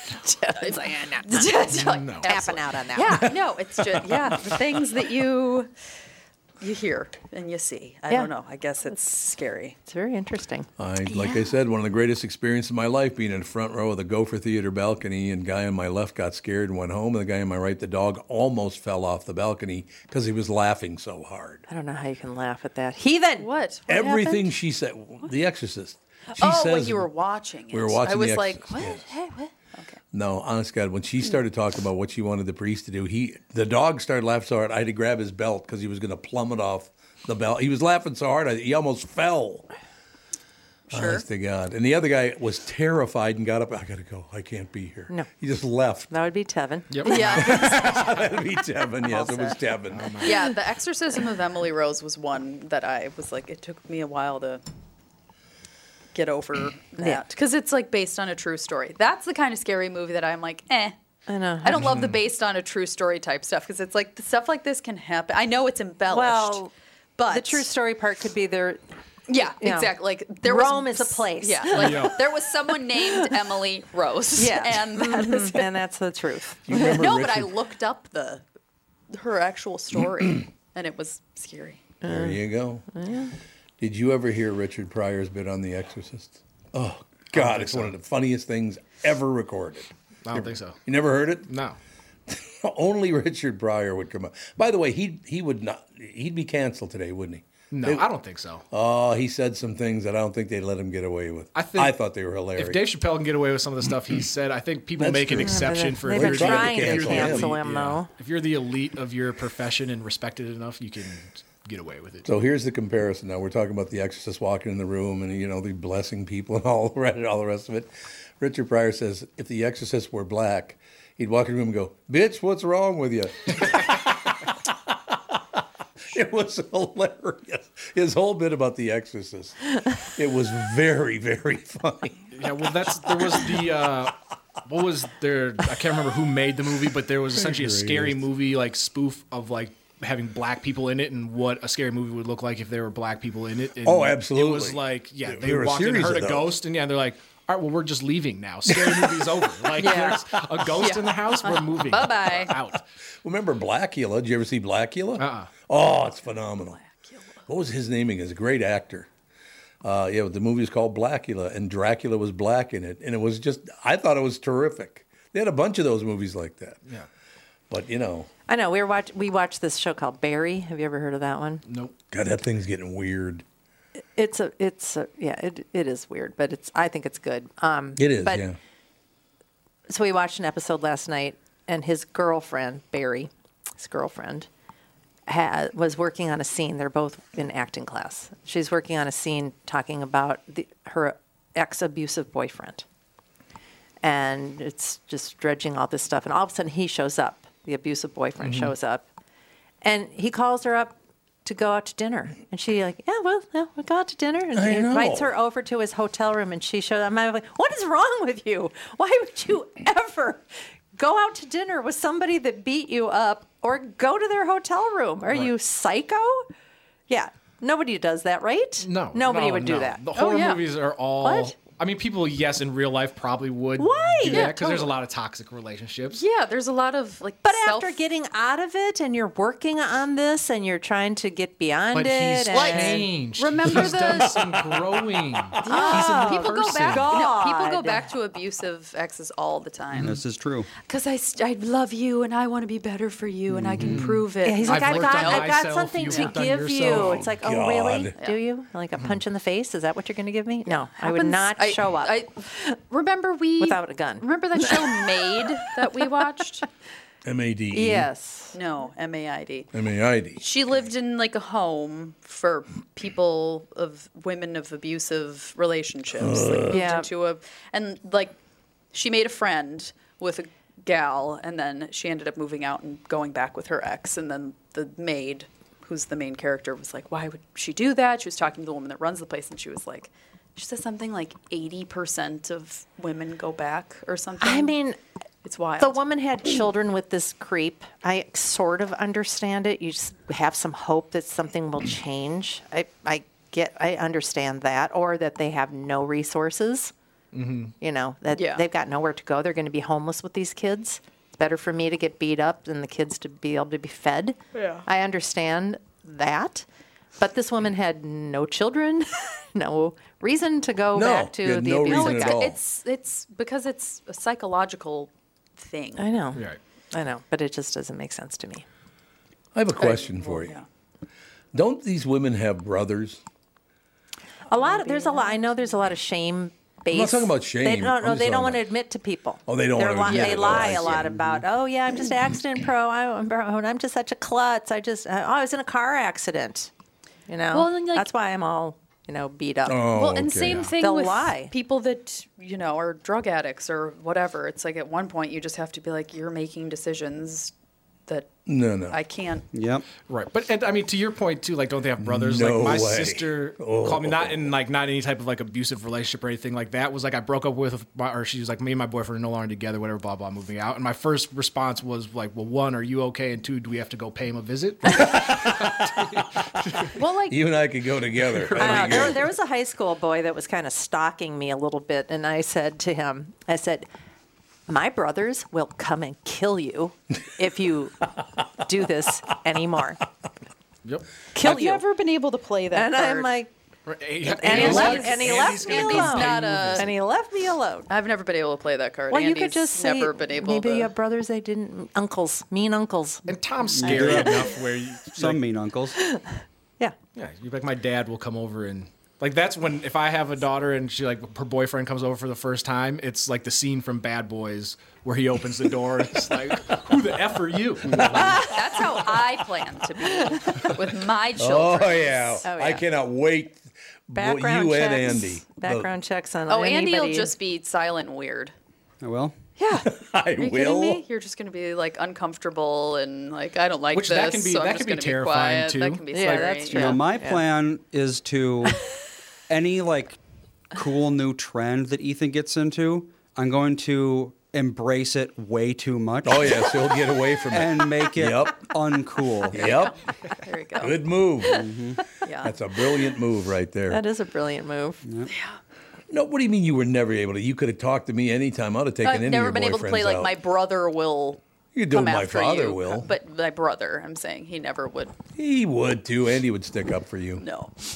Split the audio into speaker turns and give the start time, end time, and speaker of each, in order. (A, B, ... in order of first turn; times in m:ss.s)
0:00.2-0:01.5 A
0:00.4-0:05.7 B
0:01.7-0:02.4 C
0:02.2-0:03.3 A
0:03.9-0:04.6 D
0:06.6-0:09.8 B
0:09.8-0:10.7 A
0:10.8-0:21.6 D
0:11.1-0:11.5 B
0:21.7-0:23.5 A
0:23.4-0:24.4 B
0:23.9-0:27.1 D
0:24.0-0:24.4 A
0:26.3-0:29.2 B
0:27.7-0:29.0 D
0:29.2-0:29.5 A
0:29.7-0:30.0 B
0:30.1-0:39.7 D
0:40.9-0:41.2 B
0:40.9-0:46.1 D
0:46.1-0:47.5 A
0:46.9-0:47.2 C
0:47.0-0:48.2 B
0:47.3-0:50.2 D
0:49.1-0:49.6 B
0:49.9-0:50.3 C
0:50.2-0:54.6 B
0:56.1-1:00.9 B
1:01.3-1:01.9 A
1:01.6-1:06.6 B
1:01.7-1:02.2 C
1:06.1-1:06.7 A
1:07.2-1:07.7 B
1:07.3-1:08.8 A
1:09.3-1:15.7 B
1:09.6-1:12.1 A
1:11.7-1:12.2 C
1:14.4-1:17.0 A
1:16.7-1:17.5 D
1:16.7-1:18.4 B
1:19.1-1:21.8 B
1:22.0-1:23.3 A
1:22.0-1:22.8 D
1:23.8-1:31.5 D
1:27.3-1:28.0 C
1:30.2-1:30.8 C
1:31.5-1:31.8 C
1:32.3-1:38.1 D
1:37.7-1:38.6 C
1:38.7-1:42.8 D
1:41.5-1:52.3 C
1:45.0-1:47.6 D
1:45.4-1:48.1 A
1:52.2-2:04.3 D
2:06.1-2:09.6 D
2:10.2-2:12.3 D
2:12.3-2:32.8 C
2:17.4-2:18.2 D
2:23.8-2:26.6 D
2:28.7-2:29.2 D
2:29.8-2:30.2 A
2:30.8-2:32.5 B
2:33.2-2:36.8 D
2:35.2-2:35.5 C
2:36.7-2:37.5 B
2:37.5-2:39.1 D
2:39.8-2:46.8 D
2:47.7-2:48.3 D
2:48.5-2:51.6 A
2:51.6-2:52.0 C
2:52.1-2:53.4 D
2:54.1-2:58.4 A
2:58.0-2:58.6 D
2:59.9-3:04.5 A
3:05.3-3:12.8 A
3:14.0-3:19.1 A
3:18.4-3:18.7 C
3:19.8-3:36.5 A
3:24.5-3:25.3 D
3:37.1-3:40.0 A
3:38.8-3:46.2 C
3:40.1-3:40.6 B
3:41.2-3:41.5 A
3:43.8-3:44.6 A
3:44.2-3:44.9 B
3:46.1-3:48.0 B
3:47.4-3:53.1 A
3:51.9-3:57.1 C
3:52.5-3:54.4 B
3:55.6-4:00.2 B
3:55.7-3:58.1 A
3:59.9-4:00.2 C
4:00.0-4:00.7 E
4:00.9-4:06.3 B
4:03.6-4:04.0 E
4:03.8-4:07.3 C
4:04.4-4:12.8 A
4:06.9-4:08.1 D
4:10.9-4:16.6 B
4:13.6-4:14.3 A
4:17.2-4:18.1 D
4:17.7-4:18.6 A
4:18.5-4:19.7 B
4:19.7-4:20.4 D
4:20.4-4:28.4 B
4:26.2-4:26.8 D
4:26.7-4:27.1 A
4:28.9-4:44.8 B
4:44.4-4:45.0 A
4:45.4-4:46.0 B
4:45.8-4:56.9 A
4:57.3-4:57.7 C
4:57.8-5:06.6 A
4:58.3-4:58.6 B
5:04.5-5:04.8 B
5:07.2-5:12.4 A
5:10.9-5:12.6 D
5:11.8-5:16.0 B
5:16.0-5:18.6 A
5:19.5-5:20.6 D
5:19.8-5:20.6 B
5:21.5-5:23.2 D
5:24.5-5:36.7 A
5:24.6-5:25.4 B
5:26.9-5:28.6 D
5:29.5-5:31.1 D
5:30.0-5:31.0 B
5:31.1-5:31.4 E
5:37.3-5:39.8 A
5:37.5-5:38.1 B
5:39.7-5:40.7 D
5:39.9-5:47.5 B
5:40.5-5:40.7 C
5:40.8-5:41.5 A
5:48.4-5:49.0 D
5:48.9-5:49.4 B
5:49.5-5:49.8 E
5:50.1-6:06.2 C
5:52.0-5:54.5 D
6:04.9-6:05.7 D
6:07.0-6:07.4 B
6:07.3-6:09.2 D
6:08.3-6:09.1 C
6:08.6-6:13.9 A
6:14.7-6:20.0 A
6:21.3-6:21.8 A
6:21.4-6:23.3 B
6:22.7-6:23.5 A
6:23.9-6:26.9 C
6:24.3-6:27.9 A
6:24.4-6:26.9 B
6:27.9-6:30.9 B
6:29.1-6:33.2 A
6:33.2-6:35.4 C
6:33.8-6:34.5 E
6:35.1-6:36.0 E
6:36.0-6:36.9 A
6:37.2-6:48.4 C
6:47.9-6:48.6 D
6:48.3-6:52.4 B
6:51.4-6:55.9 D
6:52.4-6:52.9 A
6:54.2-6:57.3 A
6:56.5-6:58.5 B
6:59.0-6:59.4 E
6:59.6-7:07.0 B
6:59.8-7:01.0 D
7:03.9-7:06.6 C
7:06.1-7:07.4 A
7:06.7-7:08.8 E
7:09.5-7:10.2 E
7:10.7-7:16.7 E
7:16.2-7:18.7 D
7:17.5-7:19.7 E
7:19.5-7:20.0 D
7:19.5-7:21.0 B
7:20.8-7:21.7 D
7:21.5-7:22.0 E
7:22.2-7:22.5 B
7:22.4-7:24.0 D
7:23.9-7:25.0 A
7:25.0-7:25.3 E
7:25.3-7:25.6 B
7:26.1-7:30.3 D
7:29.0-7:35.1 B
7:31.7-7:33.1 D
7:35.4-7:37.4 D
7:37.4-7:37.7 B